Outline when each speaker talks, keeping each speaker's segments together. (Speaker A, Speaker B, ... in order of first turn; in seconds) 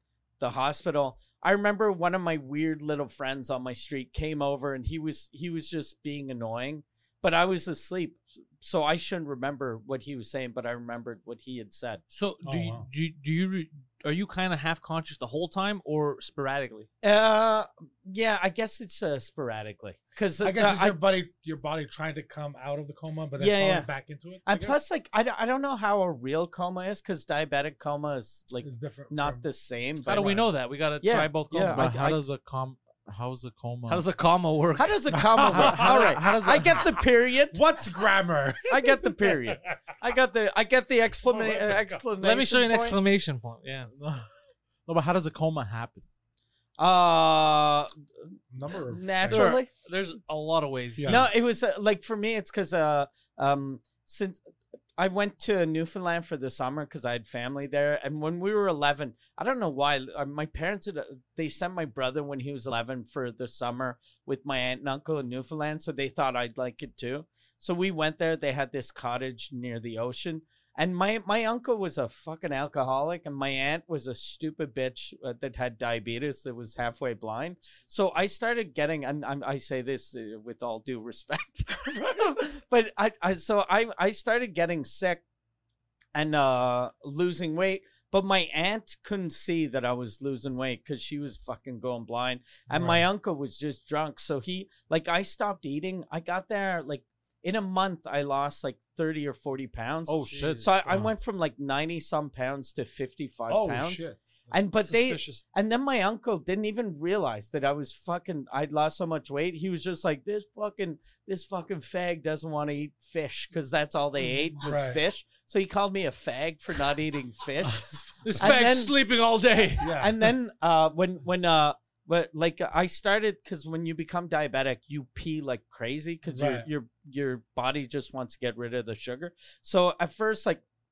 Speaker A: 0.4-12.0, 17.0-21.0, 23.4-23.9, 24.4-30.5, 31.0-32.2, 34.8-37.6, 38.7-43.0, 46.8-47.9, 48.9-49.7, 51.1-54.4, 55.0-85.2, 86.1-117.9, 118.4-119.0, 120.0-130.6
Speaker B: 12.1-16.9, 30.1-32.2, 33.9-35.0, 42.2-43.9, 49.3-51.3, 100.3-100.8, 118.2-120.1
Speaker C: 12.4-12.9, 20.4-24.8, 28.6-29.4, 30.1-30.5, 35.1-37.0, 37.5-39.7, 41.2-42.0, 48.5-49.6, 51.0-51.3, 92.7-93.1, 103.5-105.4, 114.5-115.0, 117.6-118.5, 119.8-120.1, 126.3-126.7
Speaker D: 31.7-34.1, 35.4-36.9, 44.0-44.3, 44.9-46.0, 100.1-101.1